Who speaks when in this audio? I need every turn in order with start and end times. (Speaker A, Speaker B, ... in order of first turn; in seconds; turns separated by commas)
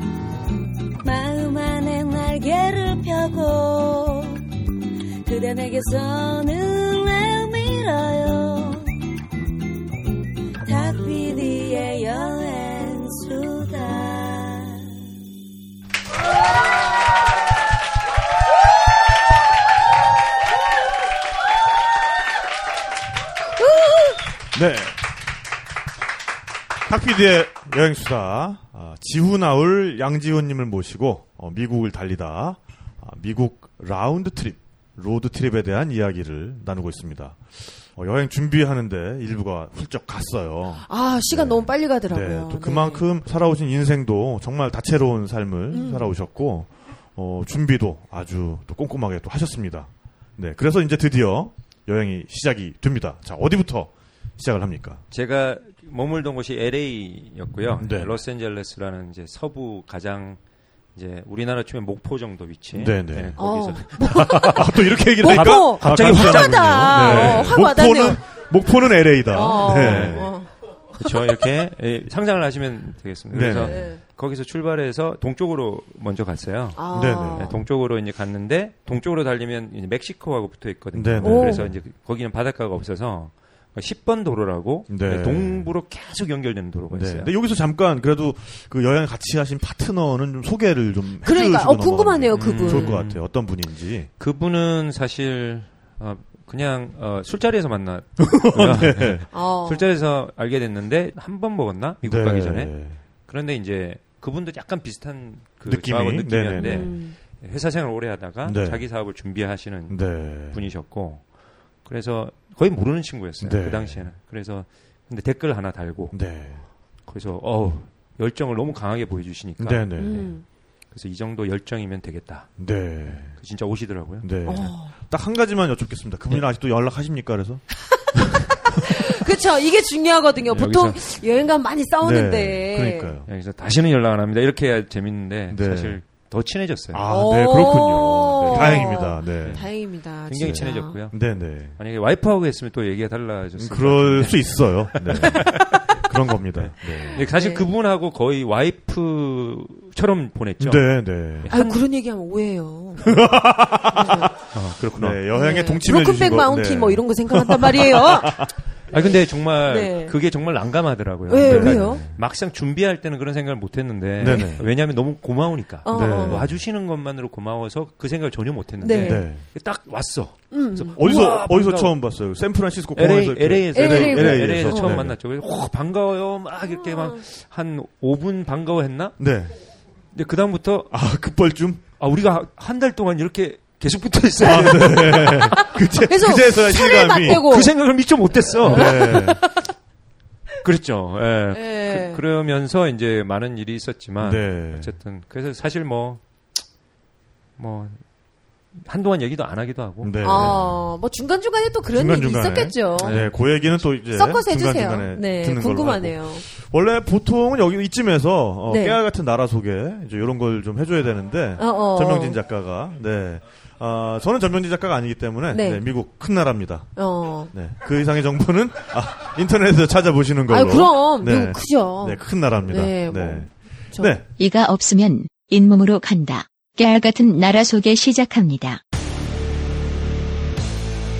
Speaker A: 1.0-4.4, Speaker A: 5.2-8.9, Speaker A: 10.6-14.9, Speaker B: 24.5-24.9, Speaker B: 26.9-55.0, Speaker C: 40.9-43.0, Speaker C: 45.7-46.1, Speaker D: 55.1-60.4, Speaker B: 57.8-58.1, Speaker D: 60.9-67.5, Speaker B: 62.7-63.4, Speaker C: 63.4-68.2, Speaker B: 64.1-70.3, Speaker C: 69.3-70.5, Speaker D: 69.6-70.2, Speaker D: 71.0-76.8, Speaker B: 73.3-73.8, Speaker C: 73.5-74.0, Speaker C: 76.8-77.5, Speaker B: 76.9-77.5, Speaker D: 77.4-87.3, Speaker B: 80.9-81.8, Speaker C: 81.2-81.7, Speaker B: 84.9-85.7, Speaker B: 86.9-94.1, Speaker C: 91.2-92.9, Speaker D: 92.4-93.2, Speaker D: 94.2-102.7, Speaker B: 98.2-99.2, Speaker C: 99.3-99.8, Speaker B: 102.0-103.0, Speaker D: 103.3-111.2, Speaker B: 105.7-106.9, Speaker C: 106.6-107.1, Speaker B: 108.4-108.8, Speaker B: 109.9-110.6, Speaker D: 111.8-116.2, Speaker B: 113.4-114.0, Speaker B: 116.1-116.6, Speaker D: 117.1-120.0, Speaker B: 119.6-120.3, Speaker C: 120.0-120.4, Speaker D: 120.9-122.5, Speaker B: 122.6-123.3, Speaker D: 123.1-124.3, Speaker B: 124.2-127.6, Speaker C: 124.5-124.9, Speaker C: 128.5-133.1, Speaker D: 130.5-131.0, Speaker B: 132.0-133.3, Speaker D: 133.3-137.0, Speaker B: 135.5-136.0, Speaker B: 136.9-139.6, Speaker C: 137.1-140.9, Speaker D: 138.4-138.9, Speaker D: 139.4-141.2, Speaker B: 140.3-141.8, Speaker D: 141.8-145.8, Speaker B: 143.6-147.2, Speaker C: 145.1-145.7, Speaker D: 147.1-151.8, Speaker C: 147.1-147.6, Speaker B: 150.6-151.5, Speaker C: 151.5-153.3, Speaker B: 153.0-154.3, Speaker C: 153.9-154.3, Speaker D: 154.5-155.2, Speaker B: 154.9-158.5, Speaker C: 155.3-158.5, Speaker D: 158.9-171.9, Speaker C: 159.7-160.1, Speaker C: 161.3-162.0, Speaker B: 161.4-162.2, Speaker B: 164.2-164.7, Speaker C: 165.8-166.4, Speaker B: 165.9-166.6, Speaker C: 168.8-169.2, Speaker B: 169.0-169.4, Speaker C: 170.5-171.0, Speaker B: 170.9-175.1, Speaker D: 172.9-179.2, Speaker C: 173.7-175.1, Speaker C: 176.8-177.2, Speaker B: 179.2-179.5, Speaker D: 180.1-180.9, Speaker B: 180.9-181.8, Speaker D: 182.0-185.5, Speaker B: 184.4-187.5, Speaker C: 185.2-187.7, Speaker D: 187.2-189.2, Speaker B: 188.6-189.4, Speaker C: 188.7-189.6, Speaker D: 190.6-196.2, Speaker C: 191.5-192.2, Speaker B: 194.2-194.9, Speaker D: 197.6-198.0, Speaker D: 198.8-200.5, Speaker B: 200.0-200.8, Speaker C: 200.2-203.1, Speaker B: 201.9-216.9, Speaker D: 203.0-203.3, Speaker C: 204.1-206.4, Speaker C: 208.7-209.0, Speaker C: 211.6-212.4, Speaker C: 215.5-215.8, Speaker C: 217.0-217.5, Speaker B: 217.5-224.2, Speaker C: 220.5-224.1, Speaker E: 224.4-228.8